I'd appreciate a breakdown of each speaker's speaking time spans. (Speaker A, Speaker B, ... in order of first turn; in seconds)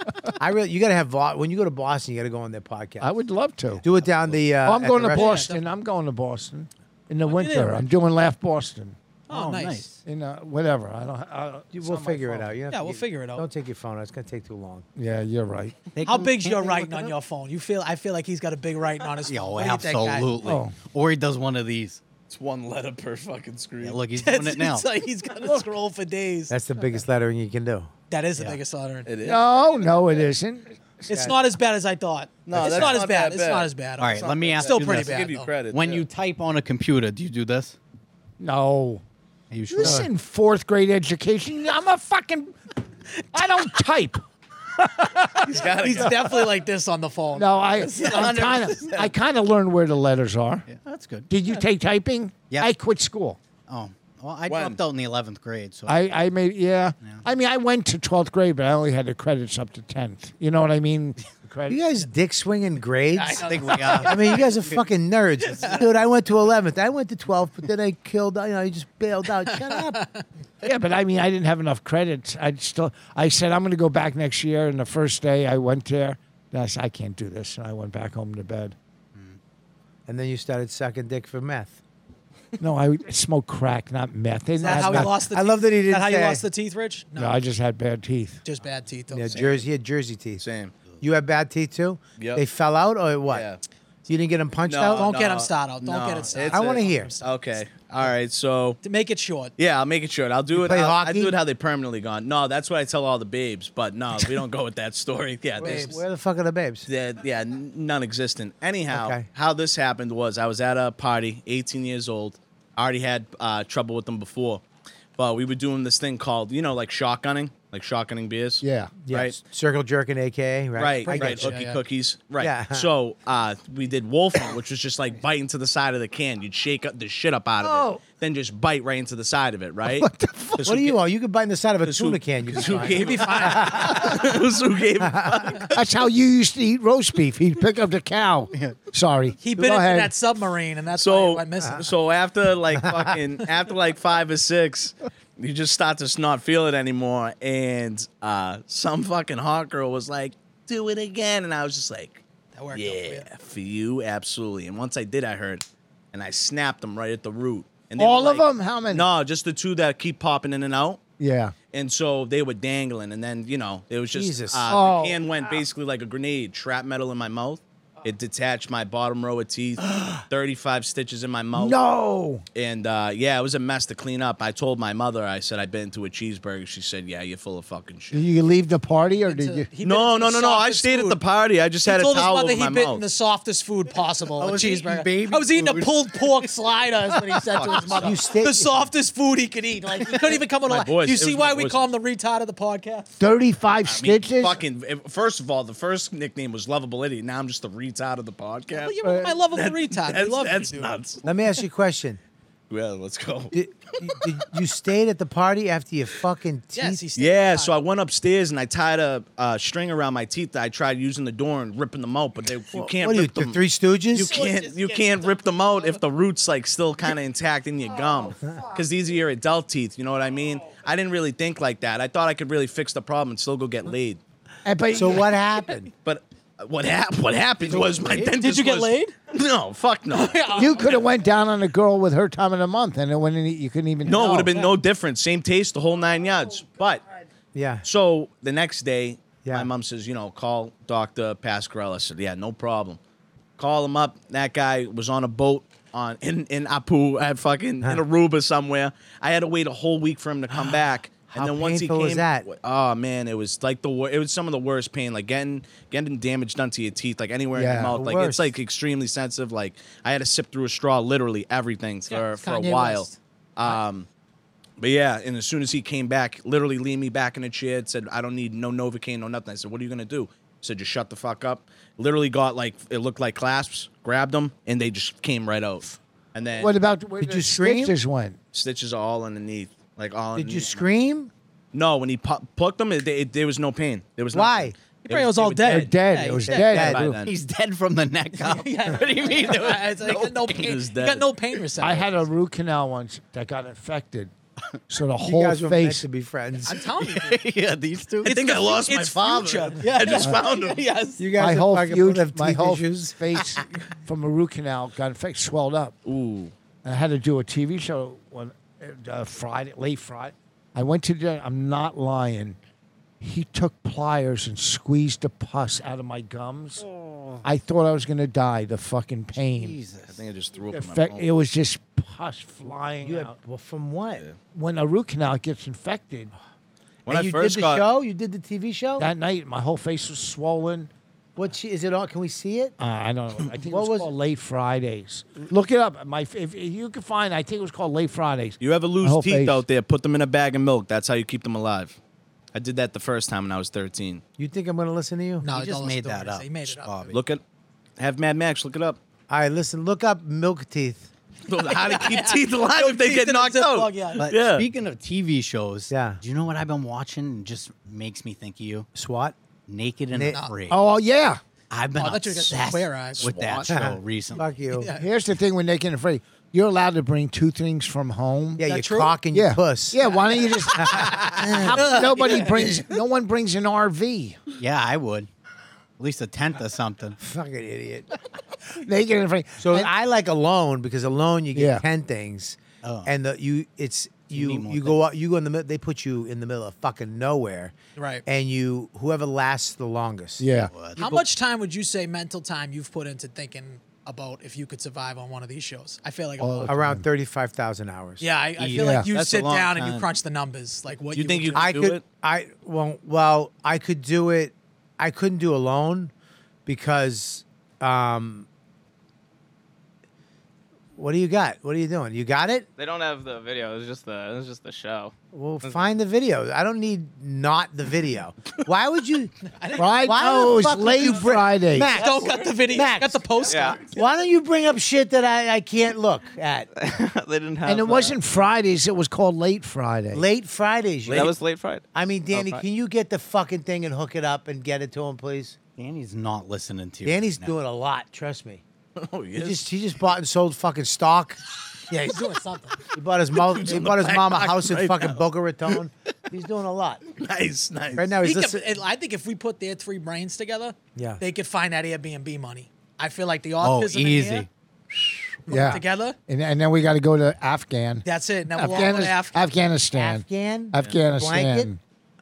Speaker A: 0.4-3.1, 3.8-5.5, 11.7-14.8, 26.5-27.9, 39.8-40.1, 61.7-70.0, 80.1-81.8, 84.6-86.4, 89.1-90.4, 91.0-93.5, 94.1-95.1, 96.3-97.1, 100.5-101.3, 105.6-106.9, 108.9-109.3, 119.0-121.5, 122.4-122.9, 130.6-134.2, 164.1-164.7, 188.0-188.8, 201.2-202.2, 203.5-207.0, 212.7-214.3, 224.9-225.9, 237.5-237.8, 239.4-239.7, 250.5-250.8, 251.3-252.5, 257.8-258.5, 277.2-277.9, 280.3-281.3, 284.3-284.8, 286.5-287.1, 295.2-296.8, 301.2-303.6, 323.0-324.2, 327.1-329.1, 331.4-332.8, 333.7-334.1, 344.4-345.5, 349.3-351.1, 355.9-356.2, 358.9-359.3, 360.1-360.4, 363.7-364.9, 368.6-370.0, 370.8-372.7, 377.2-378.1, 379.6-387.7, 388.2-390.4, 396.7-398.2, 401.6-406.1, 406.6-408.5, 410.9-412.7, 415.3-419.3, 420.0-423.3, 423.9-426.7, 430.1-431.3, 431.9-435.6, 437.0-438.6, 439.4-442.2, 442.9-447.0, 447.9-448.6, 450.9-451.2, 459.9-461.7
Speaker B: 3.0-3.8, 4.6-9.0, 10.0-12.5, 14.9-15.8, 20.4-20.7, 29.2-31.1, 38.4-39.0, 39.7-42.6, 43.3-44.2, 44.8-46.1, 47.3-50.7, 51.3-53.4, 55.9-61.8, 70.6-78.7, 82.6-85.1, 87.2-88.4, 118.6-119.1, 127.6-128.0, 129.9-130.7, 135.7-140.1, 158.0-159.1, 161.2-161.5, 164.7-165.2, 169.9-170.2, 171.5-172.4, 178.1-179.7, 193.2-194.6, 224.6-225.4, 230.5-234.6, 257.5-257.9, 276.6-278.4, 285.6-287.2, 291.8-294.3, 294.9-296.0, 301.4-305.9, 306.8-312.6, 313.2-316.8, 317.4-319.8, 320.7-323.3, 324.5-326.3, 329.0-330.9, 332.8-339.6, 360.7-361.4, 364.9-368.7, 369.3-374.4, 378.7-379.9, 381.5-381.8, 390.4-390.7, 396.4-397.0, 398.8-399.1, 419.8-421.9, 427.6-430.2, 455.5-461.8
Speaker C: 5.1-5.6, 7.3-7.8, 9.3-9.8, 12.7-13.4, 16.1-20.3, 24.2-26.5, 28.1-29.1, 31.1-35.5, 45.8-48.8, 63.1-64.5, 65.5-65.8, 69.5-70.2, 84.6-87.4, 88.4-89.4, 94.9-97.3, 98.8-99.5, 105.6-106.0, 121.1-121.8, 132.8-134.1, 139.4-141.8, 152.5-153.3, 179.3-181.2, 181.8-193.2, 198.7-200.9, 206.8-207.7, 214.2-216.0, 228.2-229.1, 230.1-231.0, 262.1-263.8, 285.0-286.9, 288.4-292.3, 296.6-297.4, 298.2-301.2, 345.4-347.1, 351.6-354.3, 362.0-363.7, 364.8-365.1, 368.6-369.1, 370.0-372.7, 387.9-388.2, 391.0-396.8, 398.2-401.6, 419.5-420.2, 421.9-423.8, 442.0-442.8, 448.2-454.5, 455.5-456.2, 458.0-459.4
Speaker D: 9.3-10.0, 15.9-17.1, 19.3-22.0, 23.8-24.9, 34.0-37.8, 39.5-40.1, 50.7-51.3, 53.7-56.0, 63.5-64.8, 184.4-186.2, 227.7-228.2, 287.2-290.8, 297.0-298.4, 319.6-320.2, 345.5-347.2, 354.2-358.9, 359.7-360.8, 361.7-364.4, 374.6-375.3, 376.0-377.2, 382.8-383.1, 384.3-385.0, 390.7-391.2, 398.6-399.0, 435.8-437.5, 453.6-454.5
Speaker E: 22.3-24.0, 29.1-29.4, 32.5-36.0, 45.4-46.3, 47.9-49.1, 54.5-54.8, 89.3-89.6, 90.4-90.7, 92.2-92.4, 93.3-93.6, 94.7-98.8, 99.6-106.0, 106.8-114.6, 115.2-119.4, 120.8-130.1, 130.6-130.9, 131.8-135.7, 141.0-152.2, 152.7-161.0, 161.7-171.8, 172.5-178.2, 179.8-183.0, 187.5-188.2, 190.6-191.8, 193.8-201.2, 202.7-204.1, 207.2-213.6, 214.1-224.2, 226.0-231.0, 234.0-237.0, 237.8-243.0, 243.6-264.1, 264.8-276.7, 278.5-280.8, 281.7-285.9, 286.8-287.3, 290.6-291.3, 298.2-300.8, 306.0-306.5, 320.0-321.3, 327.1-327.9, 338.6-342.0, 342.5-344.2, 347.1-347.4, 348.0-349.0, 351.5-354.7, 399.1-400.1, 401.1-402.1, 439.0-439.6, 443.5-445.2, 447.1-448.1
Speaker F: 412.8-415.9, 423.5-423.8, 426.7-428.2, 431.1-432.6